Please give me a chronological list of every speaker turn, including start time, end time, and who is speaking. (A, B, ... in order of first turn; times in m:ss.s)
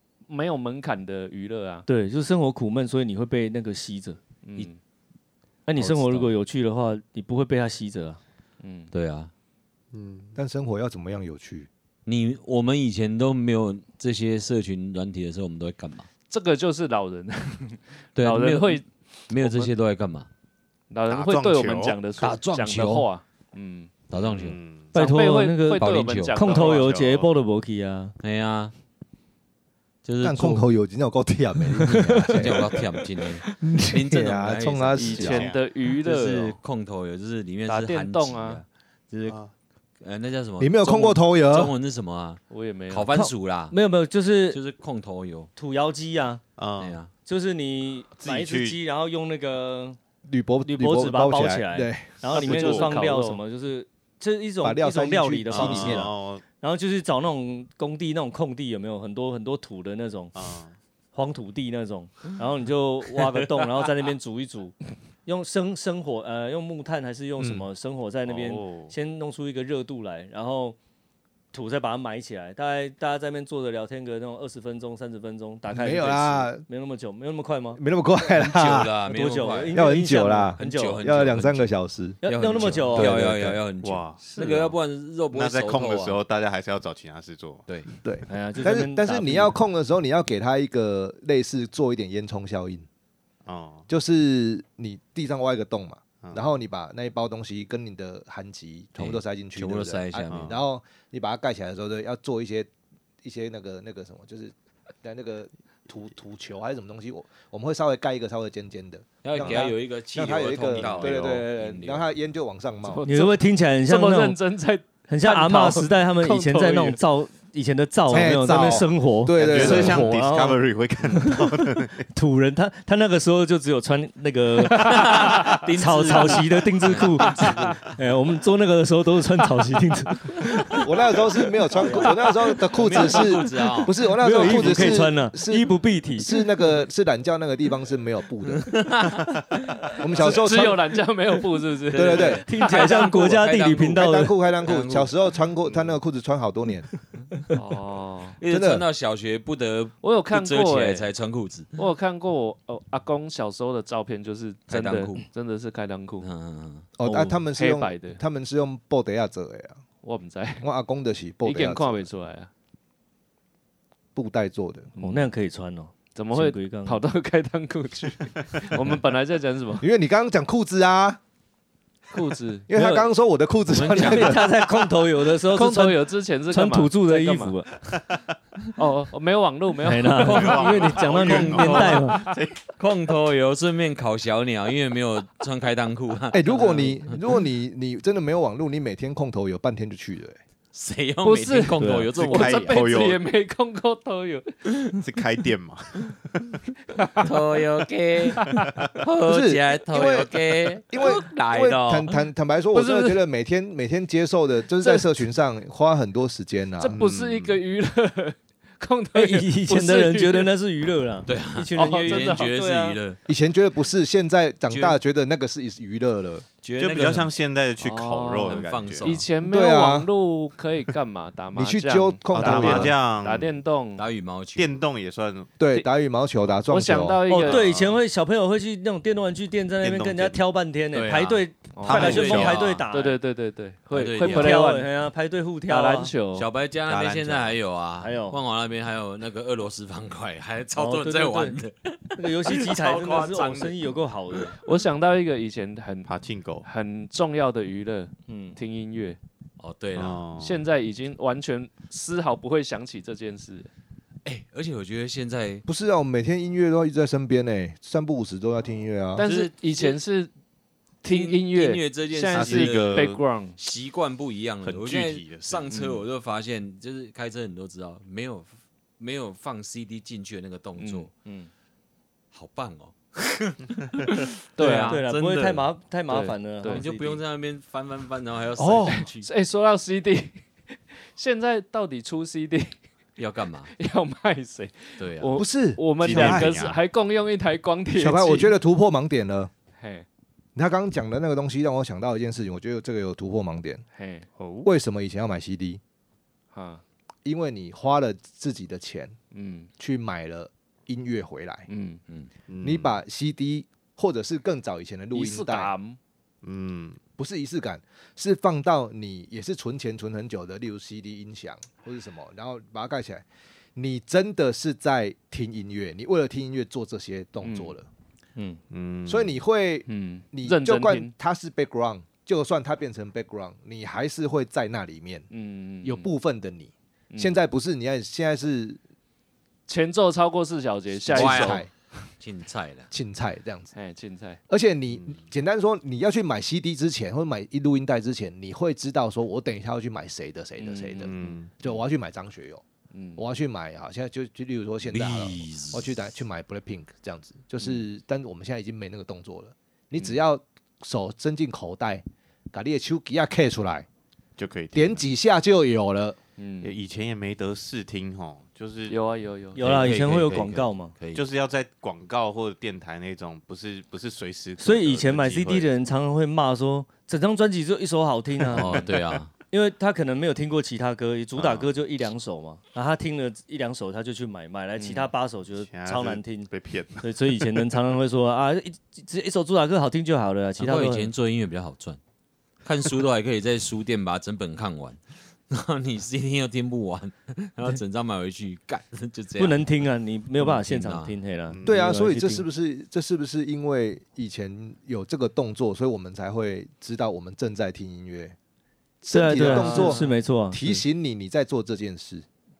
0:00.3-0:01.9 A
0:01.9-0:04.2 B
0:04.4-0:04.8 A
0:05.7-0:08.2 B
0:05.8-0:06.3 C
0:08.6-0:08.9 A
0:08.9-0:09.3 C
0:09.9-0:10.4 D
0:10.4-0:11.7 E
0:12.1-0:16.1 C
0:16.3-0:19.7 A
0:18.2-0:20.3 C
0:20.9-0:23.9 A
0:21.1-0:22.0 D
0:22.2-0:23.0 C
0:24.1-0:24.6 C
0:24.2-0:25.0 D
0:24.9-0:27.0 A
0:24.9-0:28.2 B
0:25.7-0:26.5 C
0:26.4-0:27.3 D
0:28.2-0:28.7 C
0:30.0-0:30.6 C
0:30.2-0:32.7 E
0:31.9-0:32.4 B
0:31.9-0:39.4 C
0:33.5-0:35.5 E
0:35.0-0:36.6 A
0:35.2-0:35.6 D
0:37.7-0:38.6 A
0:39.3-0:39.5 D
0:40.0-0:43.8 C
0:40.6-0:41.7 E
0:42.5-0:43.1 A
0:43.1-0:44.6 B
0:44.5-0:45.5 C
0:45.6-0:46.4 B
0:46.6-0:47.0 D
0:46.8-0:47.1 C
0:47.2-0:50.0 B
0:48.2-0:48.8 D
0:50.2-0:52.3 E
0:50.6-1:00.3 B
0:52.3-0:53.1 D
0:52.3-0:53.4 A
0:54.6-0:56.1 E
0:55.5-0:56.4 D
1:00.3-1:00.8 D
1:01.1-1:10.8 B
1:07.4-1:07.7 E
1:08.2-1:09.0 D
1:11.5-1:17.8 B
1:15.7-1:16.6 E
1:17.8-1:18.9 E
1:18.3-1:20.0 C
1:19.1-1:21.1 B
1:19.7-1:23.6 E
1:20.6-1:26.2 C
1:22.2-1:23.2 B
1:23.8-1:24.3 D
1:24.2-1:24.7 A
1:25.3-1:27.9 D
1:28.0-1:32.9 E
1:28.3-1:29.6 B
1:33.4-1:33.9 D
1:33.9-1:42.7 E
1:39.0-1:40.6 C
1:43.2-1:53.0 E
1:49.2-1:52.1 C
1:50.7-1:51.4 D
1:52.8-1:57.0 A
1:53.0-1:54.4 B
1:55.1-2:10.9 B
1:58.1-2:00.2 E
1:59.3-2:02.1 D
2:04.7-2:07.8 C
2:04.9-2:05.3 A
2:10.8-2:18.8 E
2:11.8-2:12.6 B
2:12.7-2:15.0 C
2:14.1-2:16.4 B
2:18.5-2:19.9 C
2:20.0-2:20.8 E
2:20.2-2:23.0 A
2:21.9-2:22.4 E
2:21.9-2:25.1 C
2:22.4-2:24.4 B
2:24.0-2:26.9 E
2:27.5-2:28.4 A
2:28.4-2:31.7 C
2:28.5-2:28.8 E
2:30.0-2:31.1 A
2:31.8-2:36.3 A
2:34.7-2:35.2 C
2:36.2-2:36.9 C
2:37.0-2:39.8 E
2:37.0-2:37.4 B
2:37.6-2:38.2 A
2:40.0-2:40.6 A
2:40.6-2:42.1 E
2:41.4-2:42.5 A
2:44.1-2:44.9 E
2:45.0-2:45.3 A
2:45.0-2:47.0 B
2:46.1-2:49.9 A
2:49.8-2:51.2 E
2:52.1-2:52.7 A
2:52.7-2:54.5 E
2:52.7-2:53.1 B
2:53.7-2:54.6 C
2:53.9-2:57.8 B
2:55.4-2:57.6 A
2:58.8-3:00.6 A
2:59.8-3:02.3 B
3:00.2-3:02.7 D
3:00.2-3:02.2 C
3:01.8-3:02.3 A
3:02.8-3:06.9 C
3:06.3-3:10.4 E
3:06.5-3:07.0 A
3:10.7-3:12.8 C
3:11.2-3:14.5 A
3:11.8-3:12.1 B
3:12.2-3:13.2 D
3:15.0-3:16.6 D
3:17.0-3:17.3 A
3:17.2-3:18.4 C
3:18.4-3:18.7 A
3:19.0-3:22.1 C
3:19.3-3:27.0 E
3:22.7-3:23.2 A
3:24.8-3:25.1 A
3:26.8-3:30.5 A
3:26.9-3:27.6 D
3:29.1-3:33.0 B
3:31.3-3:33.2 C
3:31.8-3:32.5 A
3:33.3-3:36.5 E
3:34.7-3:35.0 C
3:36.6-3:37.3 C
3:36.8-3:39.2 D
3:37.8-3:44.0 A
3:38.5-3:39.3 C
3:39.4-3:40.1 E
3:41.5-3:42.9 E
3:42.3-3:43.6 D
3:44.0-3:44.8 C
3:44.6-3:45.5 D
3:45.6-3:47.2 E
3:46.7-3:47.9 A
3:47.3-3:53.2 B
3:47.4-3:47.8 D
3:49.8-3:50.4 D
3:50.9-3:52.9 C
3:51.8-3:54.9 A
3:51.8-3:52.6 D
3:53.9-3:54.6 C
3:54.2-3:56.1 B
3:55.7-3:56.5 A
3:56.3-4:04.6 C
3:56.9-3:57.6 D
3:58.0-3:58.4 B
4:00.8-4:01.6 B
4:02.2-4:04.6 B
4:04.6-4:06.1 A
4:06.1-4:06.7 D
4:06.6-4:09.2 A
4:08.3-4:08.6 B
4:09.6-4:10.2 C
4:10.0-4:10.6 D
4:10.4-4:13.7 A
4:14.2-4:15.6 C
4:15.7-4:19.3 E
4:19.2-4:20.3 A
4:19.2-4:20.0 C
4:21.0-4:23.6 A
4:21.0-4:31.1 C
4:22.3-4:23.2 D
4:24.6-4:25.7 D
4:25.7-4:26.0 A
4:30.8-4:31.1 A
4:32.3-4:35.7 C
4:34.6-4:35.0 A
4:34.8-4:37.2 B
4:36.1-4:36.9 A
4:36.6-4:39.3 C
4:38.6-4:39.0 E
4:38.8-4:42.8 A
4:43.2-4:43.7 C
4:43.7-4:48.5 A
4:45.0-4:45.4 C
4:45.4-4:46.6 E
4:46.0-4:46.8 D
4:48.0-4:49.5 E
4:49.8-4:50.1 A
4:50.6-4:53.8 E
4:54.0-4:54.3 A
4:54.4-4:54.7 D
4:54.6-4:55.8 E
4:56.5-4:56.8 A
4:57.2-4:59.2 E
4:59.3-4:59.7 A
4:59.8-5:01.7 E
5:01.7-5:02.0 A
5:02.5-5:03.0 D
5:02.6-5:05.7 E
5:05.1-5:06.0 A
5:06.4-5:07.0 D
5:07.2-5:13.2 E
5:13.8-5:17.9 E
5:17.4-5:17.7 A
5:18.4-5:18.6 B
5:18.7-5:19.4 D
5:19.1-5:25.3 E
5:19.9-5:21.1 A
5:25.3-5:26.1 A
5:25.8-5:28.8 E
5:27.1-5:27.4 A
5:29.7-5:31.6 A
5:31.0-5:31.7 E
5:31.1-5:31.6 C
5:32.2-5:32.9 C
5:32.9-5:33.7 E
5:33.7-5:34.4 A
5:34.5-5:42.6 E
5:34.9-5:35.2 D
5:40.6-5:41.8 A
5:41.0-5:41.5 D
5:42.9-5:43.2 A
5:43.2-5:53.9 E
5:44.8-5:45.9 C
5:54.4-5:55.0 D
5:54.7-5:56.2 E
5:56.4-5:56.8 A
5:56.6-5:59.0 D
5:58.9-5:59.8 A
5:59.5-6:01.0 B
5:59.6-6:01.2 C
6:01.1-6:05.7 D
6:04.6-6:08.9 B
6:08.5-6:09.3 C
6:09.5-6:16.5 B
6:11.4-6:11.7 C
6:14.8-6:15.1 A
6:15.6-6:17.6 D
6:17.0-6:21.1 B
6:20.6-6:22.0 C
6:22.6-6:31.2 C
6:29.4-6:32.4 B
6:31.5-6:31.9 D
6:31.6-6:38.4 E
6:39.0-6:42.3 E
6:39.1-6:40.8 B
6:39.4-6:40.1 A